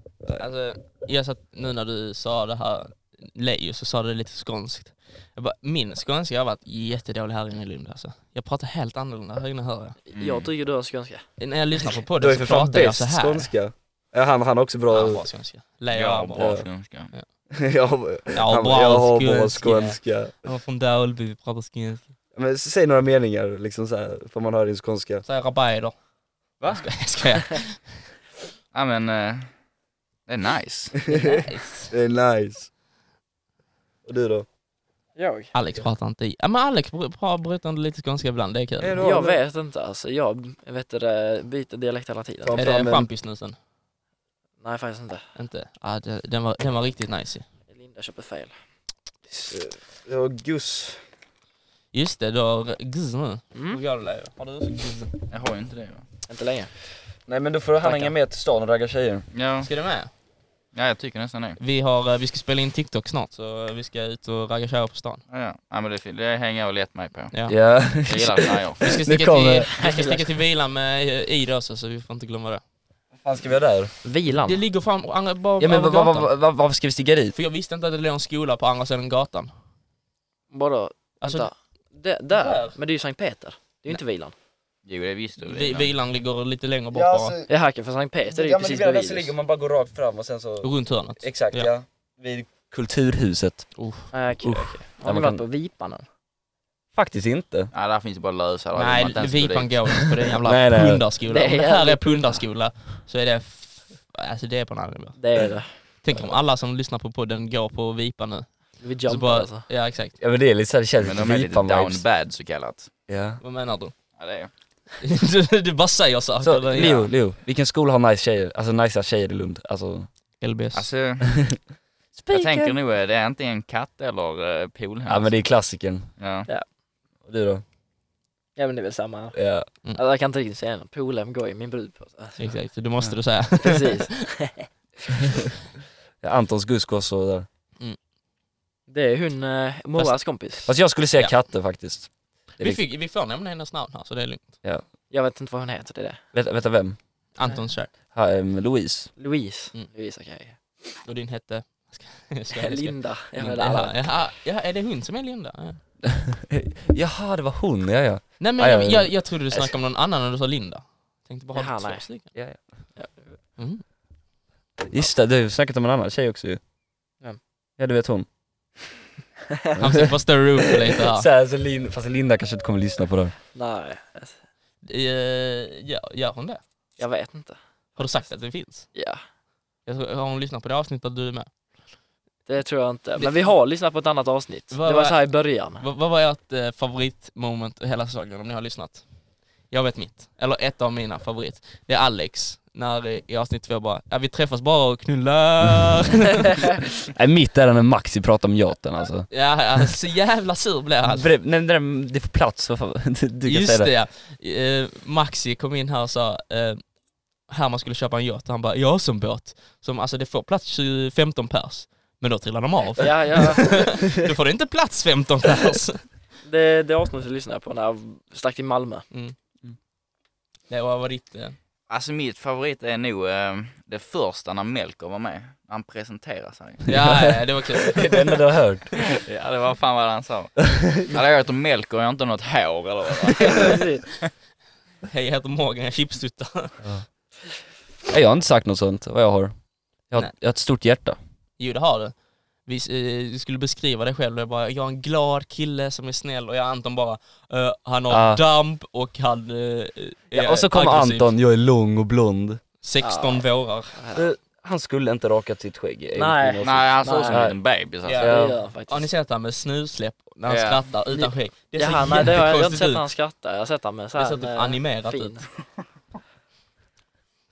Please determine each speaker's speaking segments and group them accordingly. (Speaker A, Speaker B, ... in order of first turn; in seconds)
Speaker A: 0.3-10.0, 11.4-13.5, 14.9-16.6, 18.3-22.1, 25.2-26.0, 26.6-28.0, 31.1-31.9, 35.5-39.0, 42.5-43.5, 45.4-47.5, 51.9-55.1, 57.8-58.1, 59.6-60.1, 61.6-65.2, 67.3-67.6, 68.8-72.6, 74.3-76.3, 77.3-79.5, 81.2-81.5, 82.3-82.8, 85.4-87.3, 90.6-91.7, 93.8-94.1, 98.7-110.2, 113.4-113.9, 115.0-117.1, 120.4-120.9, 132.4-134.1, 141.2-141.4, 142.6-144.5, 147.3-147.9, 151.0-155.8, 158.4-162.3, 163.6-163.8, 169.8-171.3, 174.8-176.6, 177.9-178.9, 179.8-181.5, 183.2-183.5, 184.7-196.7, 199.3-201.3, 203.4-216.0, 220.7-221.6, 226.8-228.4, 235.1-236.8, 241.6-251.3, 252.8-253.9, 258.0-263.1, 264.1-265.4
Speaker B: 10.1-11.3, 35.1-35.5, 39.0-42.7, 44.6-45.3, 47.7-48.5, 53.5-53.8, 56.2-56.7, 69.6-70.3, 74.0-74.6, 80.5-84.3, 87.5-89.3, 94.1-96.0, 101.2-102.4, 105.2-106.0, 108.8-109.7, 128.6-129.4, 129.9-132.6, 133.6-135.2, 138.9-140.7, 145.1-146.2, 149.2-150.6, 152.5-154.2, 161.5-162.3, 162.9-163.4, 173.5-174.3, 177.0-178.3, 178.9-179.2, 182.5-185.8, 213.0-214.0, 216.4-219.1, 233.6-234.0, 253.0-254.3, 256.1-257.5, 258.1-259.1, 261.1-265.5
Speaker C: 10.1-10.5, 15.9-17.1, 28.7-29.5, 30.2-31.0, 55.3-56.0, 59.3-59.8, 60.7-61.6, 65.3-69.0, 84.8-85.9, 97.7-100.1, 111.0-112.9, 114.2-114.5, 120.7-121.5, 122.1-125.4, 126.2-126.5, 221.9-226.9, 229.1-234.2, 256.6-258.3, 260.5-260.9
Speaker D: 12.2-15.2, 16.4-16.7, 17.5-20.3, 22.3-25.2, 31.1-32.7, 34.0-34.5, 38.8-39.4, 42.4-43.1, 49.3-51.0, 57.2-59.2, 67.5-69.7, 73.2-73.9, 75.6-77.3, 86.9-87.5, 88.3-93.8, 94.4-95.4, 96.9-97.7, 100.5-101.0, 110.2-112.0, 113.1-113.4, 116.4-120.1, 121.3-121.6, 122.2-122.7, 125.1-126.1, 127.2-127.6, 129.3-129.7, 136.2-137.4, 140.6-142.8, 146.3-147.0, 148.1-149.1, 156.1-159.7, 162.3-162.6, 164.8-166.6, 167.8-168.3, 169.7-173.3, 197.1-199.3, 201.0-203.9, 227.0-227.3, 227.9-229.0, 238.1-239.6, 240.1-241.2, 248.1-248.4, 250.3-252.6, 254.1-257.6, 258.2-258.5